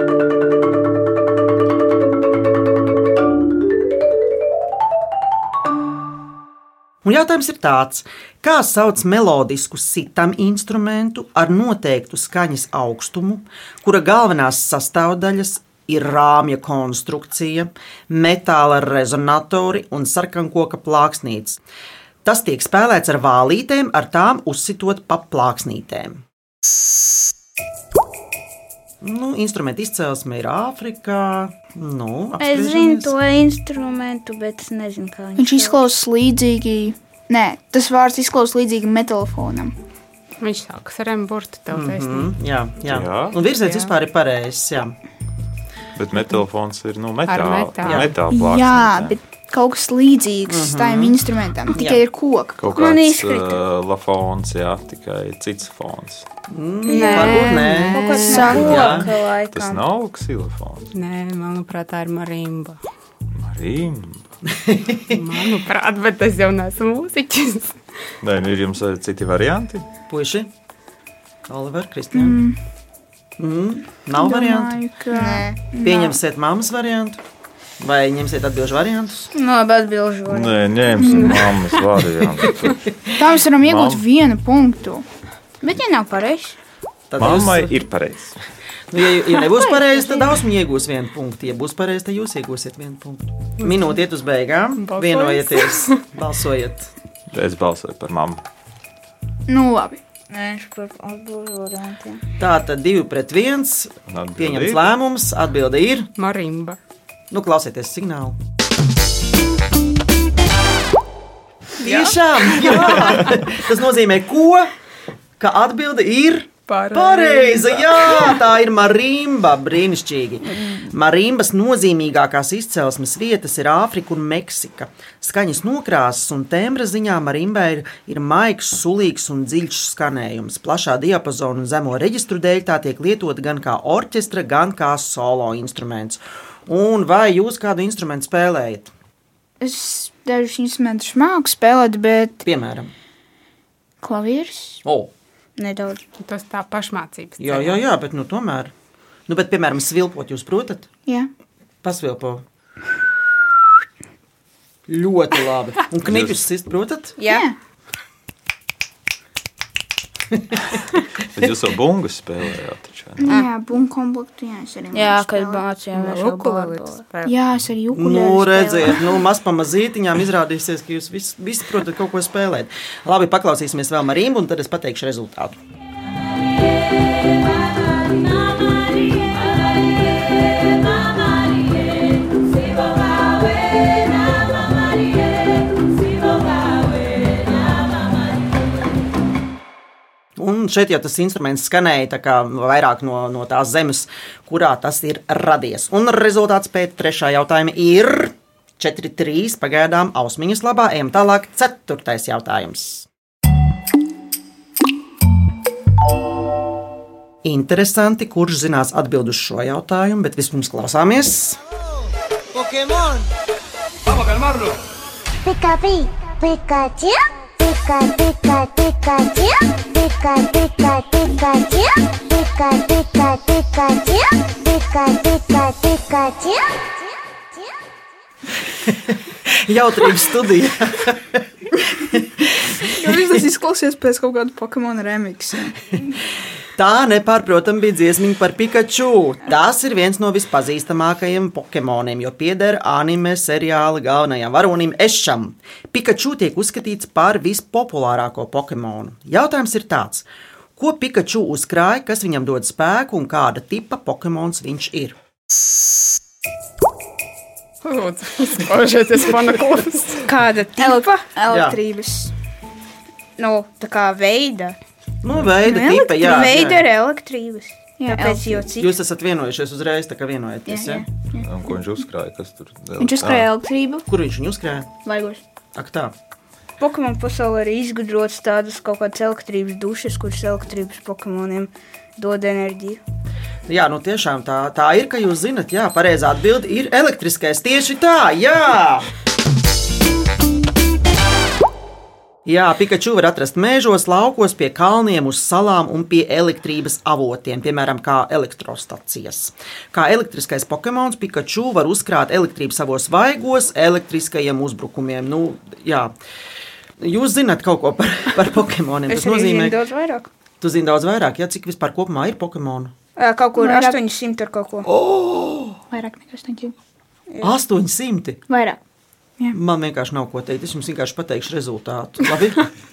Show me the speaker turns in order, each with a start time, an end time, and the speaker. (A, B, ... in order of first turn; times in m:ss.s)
0:07.0-0:21.6 A
0:22.2-0:26.2 A
0:29.0-0:33.1 A
0:32.4-0:35.8 B
0:35.4-0:39.7 C
0:40.4-0:42.3 D
0:41.7-0:44.9 A
0:42.8-0:43.3 E
0:43.6-0:43.9 D
0:46.0-0:49.2 E
0:47.3-0:48.1 D
0:47.8-0:48.1 A
0:48.3-0:52.6 C
0:50.5-0:51.2 A
0:51.7-0:52.0 A
0:52.6-0:56.2 E
0:52.7-0:53.6 B
0:56.5-0:59.1 A
0:56.9-0:59.8 B
0:56.9-0:58.6 D
0:58.3-0:58.7 C
0:58.5-1:00.9 E
1:00.9-1:02.8 D
1:03.3-1:04.3 E
1:04.6-1:05.0 A
1:05.1-1:07.8 D
1:08.2-1:09.8 E
1:10.1-1:10.5 A
1:11.5-1:12.4 A
1:12.1-1:12.6 C
1:13.4-1:14.8 A
1:14.2-1:16.2 C
1:15.1-1:15.6 B
1:15.8-1:17.2 A
1:17.8-1:19.3 A
1:19.3-1:21.0 B
1:20.3-1:22.8 E
1:21.0-1:21.3 C
1:21.3-1:21.6 D
1:23.1-1:25.0 C
1:23.6-1:24.0 E
1:25.6-1:26.6 B
1:27.1-1:27.8 A
1:27.2-1:28.4 E
1:28.9-1:36.9 A
1:29.5-1:30.3 C
1:33.6-1:34.0 D
1:34.8-1:36.0 D
1:37.3-1:38.4 E
1:39.5-1:40.0 C
1:40.3-1:42.2 B
1:42.4-1:46.1 A
1:44.1-1:44.9 E
1:46.2-1:46.8 D
1:47.3-1:48.4 A
1:51.8-1:54.7 A
1:51.8-1:52.1 D
1:52.6-1:53.3 D
1:55.4-2:18.9 A
1:56.7-1:58.4 D
2:19.6-2:22.4 C
2:22.4-2:22.9 A
2:24.0-2:24.8 C
2:25.6-2:26.0 B
2:26.2-2:27.8 D
2:27.4-2:28.7 A
2:29.3-2:30.9 A
2:31.8-2:32.4 A
2:34.9-2:37.2 A
2:36.0-2:36.4 E
2:37.2-2:37.4 B
2:37.3-2:37.6 C
2:41.3-2:43.4 E
2:43.2-2:45.6 C
2:44.9-2:47.0 B
2:45.9-2:47.3 D
2:47.2-2:49.2 C
2:47.9-2:55.6 A
3:10.4-3:23.1 A
3:27.4-3:31.6 A
3:35.4-3:46.9 F
3:48.9-3:51.4 A
3:52.0-3:53.2 A
3:52.9-3:55.7 C
3:56.8-4:10.2 A
4:10.8-4:15.2 A
4:17.8-4:20.2 D
4:20.2-4:21.2 B
4:20.8-4:22.3 C
4:21.5-4:21.8 A
4:23.4-4:24.8 B
4:25.2-4:26.9 A
4:25.6-4:26.2 C
4:26.2-4:28.9 B
4:28.0-4:28.6 C
4:28.8-4:31.0 A
4:30.7-4:31.4 C
4:31.4-4:33.5 E
4:33.0-4:34.0 C
4:34.1-4:34.9 A
4:35.0-4:35.4 C
4:35.7-4:36.1 A
4:36.8-4:43.0 B
4:43.7-4:49.1 A
4:52.4-5:06.1 A
5:07.0-5:09.8 A
5:09.1-5:10.3 B
5:10.6-5:12.9 A
5:13.2-5:14.9 B
5:13.6-5:14.0 C
5:14.8-5:15.8 A
5:15.9-5:16.7 C
5:17.4-5:18.4 A
5:18.5-5:18.8 C
5:19.5-5:22.7 A